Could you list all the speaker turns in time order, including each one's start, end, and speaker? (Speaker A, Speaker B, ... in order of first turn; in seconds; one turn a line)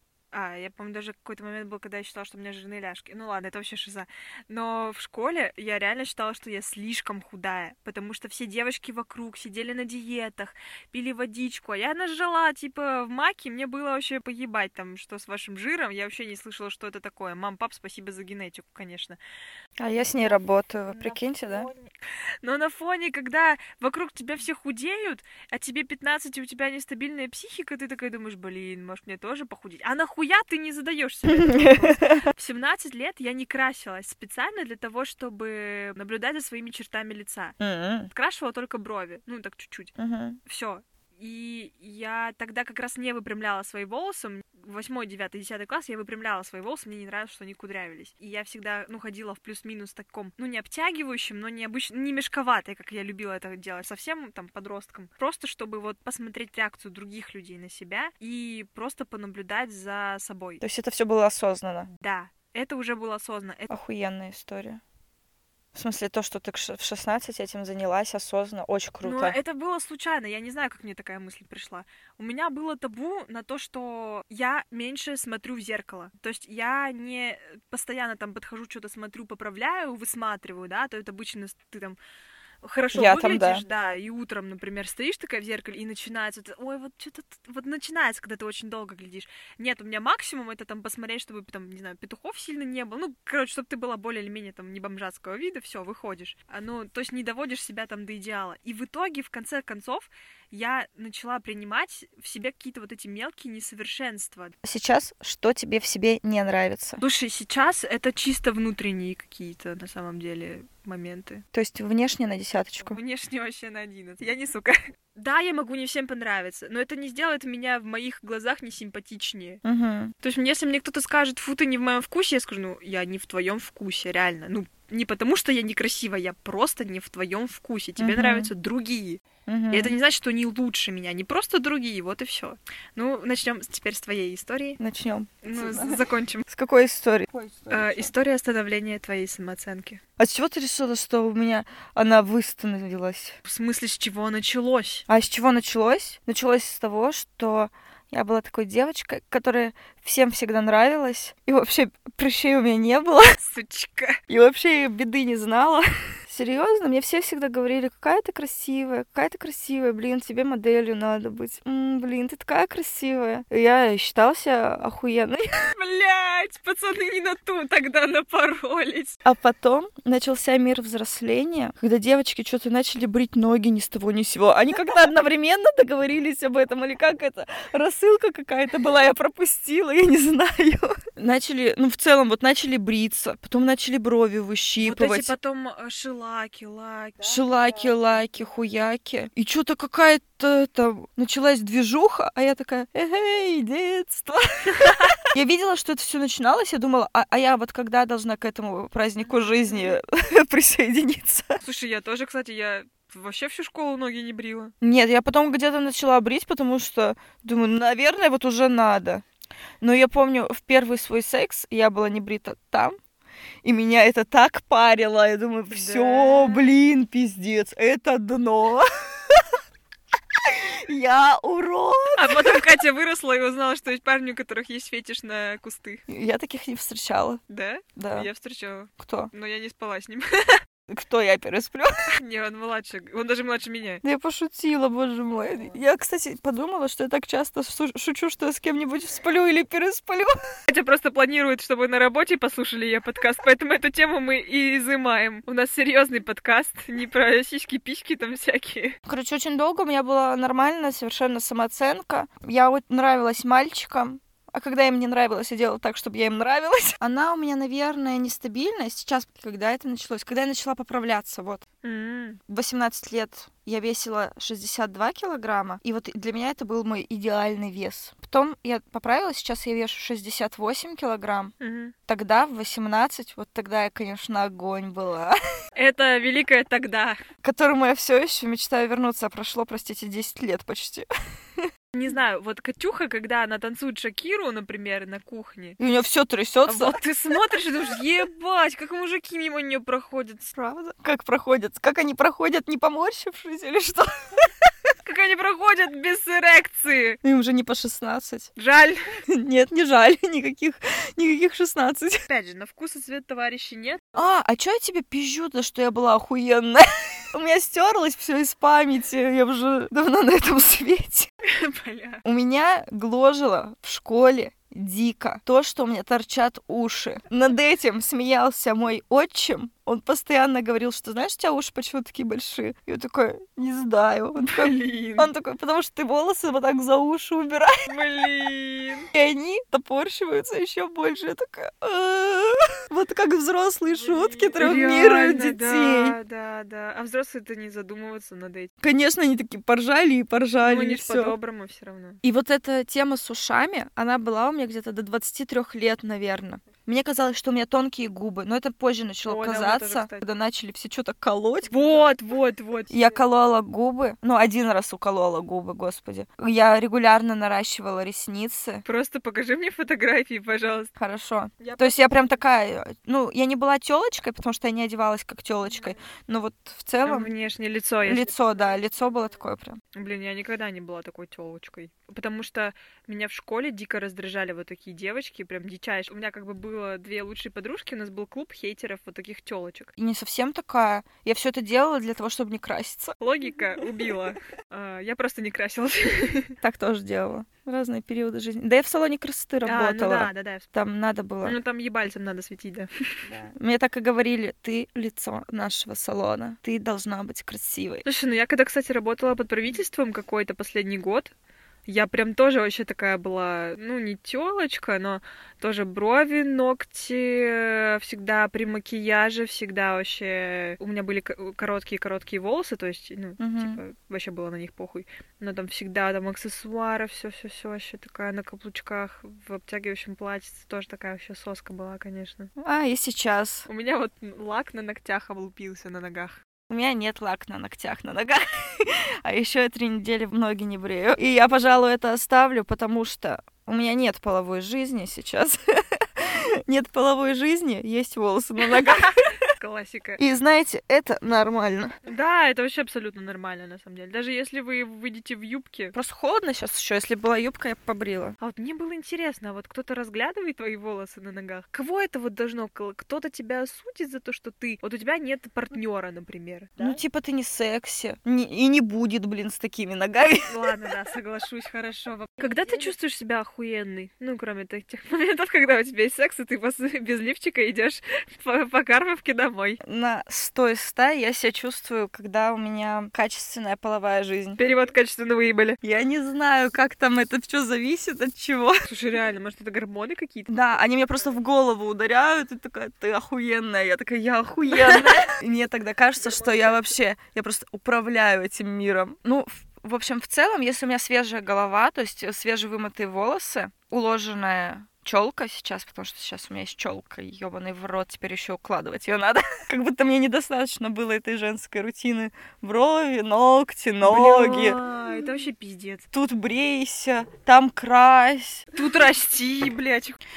Speaker A: 0.3-19.2
Speaker B: 19.8-21.7
Speaker A: 20.2-21.9
Speaker A: 22.4-37.6
Speaker B: 31.3-32.2
Speaker B: 37.6-38.1
Speaker A: 38.1-39.9
Speaker B: 40.0-40.4
Speaker A: 40.5-60.6
Speaker B: 60.6-61.9
Speaker A: 61.9-63.7
Speaker B: 63.7-64.8
Speaker B: 65.7-69.4
Speaker A: 69.0-82.0
Speaker A: 82.6-104.6
Speaker B: 82.9-83.6
Speaker B: 104.6-107.0
Speaker A: 107.0-111.4
Speaker B: 111.5-113.0
Speaker A: 112.9-119.6
Speaker B: 119.6-120.1
Speaker A: 120.2-134.8
Speaker B: 128.0-128.5
Speaker B: 129.5-129.9
Speaker B: 134.8-138.1
Speaker A: 135.4-136.5
Speaker A: 137.7-140.0
Speaker B: 140.2-143.4
Speaker A: 143.4-145.1
Speaker B: 145.1-153.4
Speaker A: 153.4-154.2
Speaker B: 154.3-165.5
Speaker A: 165.7-169.2
Speaker B: 169.2-185.4
Speaker A: 184.8-188.2
Speaker B: 187.2-201.6
Speaker A: 194.8-195.2
Speaker A: 201.6-204.7
Speaker B: 204.8-209.2
Speaker B: 209.8-213.0
Speaker B: 213.6-219.5
Speaker A: 215.7-216.6
Speaker B: 220.4-222.6
Speaker A: 222.2-226.0
Speaker B: 226.1-227.4
Speaker A: 227.5-230.6
Speaker B: 228.0-228.3
Speaker B: 229.0-229.3
Speaker B: 230.9-232.1
Speaker A: 232.1-234.0
Speaker B: 234.0-240.4
Speaker A: 235.5-235.8
Speaker A: 240.7-249.0
Speaker B: 249.1-261.6
Speaker A: 261.8-262.4
Speaker B: 262.5-271.5
Speaker A: 271.6-271.9
Speaker B: 272.1-275.4
Speaker A: 275.8-277.2
Speaker B: 277.4-281.7
Speaker A: 281.9-285.8
Speaker B: 285.8-287.0
Speaker A: 286.7-290.5
Speaker B: 290.5-294.5
Speaker A: 295.0-297.2
Speaker B: 297.2-298.5
Speaker A: 298.6-299.0
Speaker B: 299.3-302.2
Speaker A: 302.3-304.2
Speaker B: 304.1-311.3
Speaker A: 311.5-312.2
Speaker B: 312.2-327.9
Speaker A: 324.4-325.3
Speaker A: 327.9-329.1
Speaker B: 329.1-336.2
Speaker A: 333.9-338.7
Speaker B: 338.8-341.4
Speaker A: 340.6-342.2
Speaker B: 342.2-352.1
Speaker A: 349.2-350.2
Speaker A: 351.7-353.2
Speaker B: 352.9-358.8
Speaker A: 358.9-360.9
Speaker B: 361.0-367.3
Speaker A: 361.6-362.1
Speaker A: 367.0-368.3
Speaker B: 368.0-369.8
Speaker A: 369.9-379.9
Speaker B: 380.0-383.2
Speaker A: 383.2-386.6
Speaker B: 386.6-391.6
Speaker A: 389.6-390.7
Speaker A: 391.4-393.3
Speaker B: 393.3-398.1
Speaker A: 398.1-401.3
Speaker A: 401.9-422.5
Speaker B: 413.4-413.8
Speaker B: 422.6-423.7
Speaker A: 423.7-426.4
Speaker B: 426.7-439.2
Speaker A: 439.6-440.2
Speaker B: 440.2-442.0
Speaker A: 442.1-445.9
Speaker B: 445.9-448.4
Speaker A: 448.4-457.0
Speaker B: 456.8-460.7
Speaker A: 460.5-469.8
Speaker B: 462.4-462.9
Speaker B: 469.8-474.6
Speaker A: 474.6-475.8
Speaker B: 475.8-478.8
Speaker A: 478.9-480.6
Speaker B: 480.5-504.8
Speaker A: 484.7-485.3
Speaker A: 486.2-486.9
Speaker A: 504.0-506.1
Speaker B: 506.1-508.7
Speaker A: 508.8-510.2